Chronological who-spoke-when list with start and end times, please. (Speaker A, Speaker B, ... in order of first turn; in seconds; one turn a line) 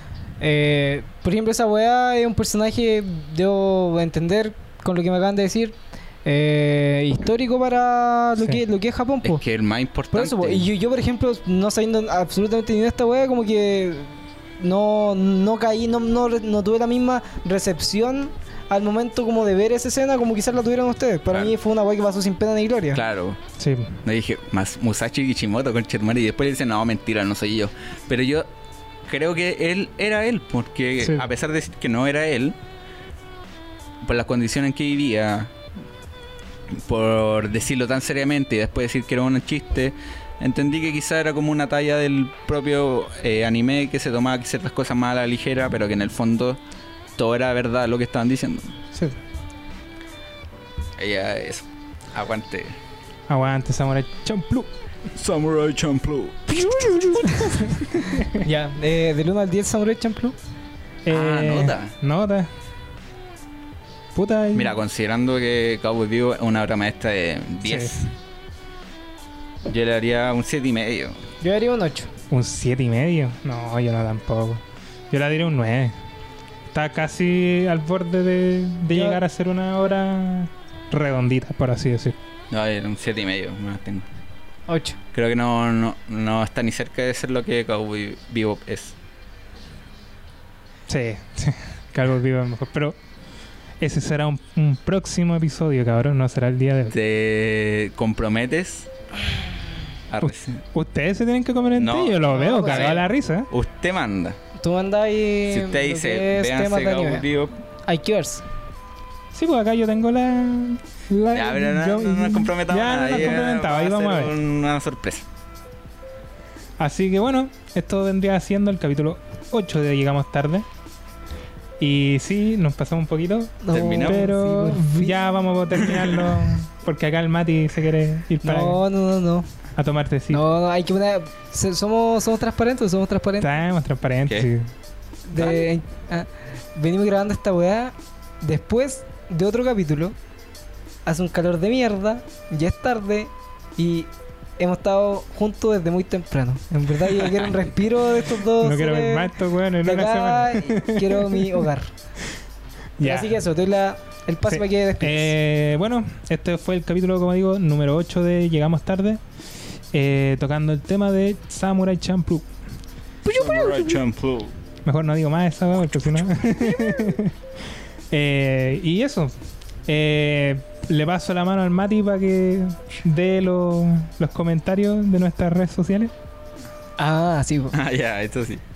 Speaker A: 0.4-9.4
Speaker B: 9.2-10.7
Speaker A: 10.1-23.0
Speaker B: 22.9-23.4
Speaker C: 23.6-24.0
Speaker B: 24.0-28.5
Speaker B: 29.0-32.6
Speaker B: 34.0-35.5
Speaker B: 36.7-46.6
Speaker B: 47.1-48.8
Speaker B: 51.0-52.8
Speaker C: 53.3-54.7
Speaker B: 55.1-57.5
Speaker C: 56.7-58.4
Speaker A: 57.3-57.5
Speaker A: 58.1-60.4
Speaker C: 61.0-62.5
Speaker B: 61.1-61.9
Speaker C: 64.1-64.8
Speaker B: 64.5-68.0
Speaker C: 67.7-68.0
Speaker B: 69.7-71.2
Speaker A: 71.4-72.1
Speaker C: 72.3-76.0
Speaker C: 76.7-82.2
Speaker A: 78.9-79.2
Speaker B: 82.5-84.1
Speaker A: 84.7-85.0
Speaker B: 85.1-89.0
Speaker C: 90.9-93.0
Speaker C: 93.8-96.9
Speaker B: 96.9-98.9
Speaker B: 100.1-100.6
Speaker C: 100.2-103.5
Speaker B: 101.8-104.4
Speaker A: 102.3-103.0
Speaker A: 104.6-107.3
Speaker B: 105.5-107.5
Speaker A: 107.8-108.4
Speaker C: 109.3-114.3
Speaker B: 111.3-115.2
Speaker C: 116.8-120.7
Speaker C: 121.8-128.8
Speaker A: 123.6-125.4
Speaker B: 123.7-124.2
Speaker B: 125.8-126.5
Speaker A: 128.4-129.5
Speaker C: 129.8-130.4
Speaker A: 130.3-133.5
Speaker C: 133.4-134.7
Speaker A: 135.3-140.1
Speaker B: 135.3-135.6
Speaker A: 141.1-144.1
Speaker A: 144.6-151.9
Speaker B: 147.2-147.5
Speaker C: 148.6-151.7
Speaker C: 153.0-153.4
Speaker A: 153.0-155.3
Speaker C: 154.5-159.2
Speaker C: 159.9-162.5
Speaker A: 163.2-164.0
Speaker B: 163.3-164.5
Speaker C: 164.8-167.3
Speaker A: 166.5-167.2
Speaker C: 168.1-169.3
Speaker C: 169.8-176.1
Speaker A: 177.0-177.8
Speaker B: 177.7-178.6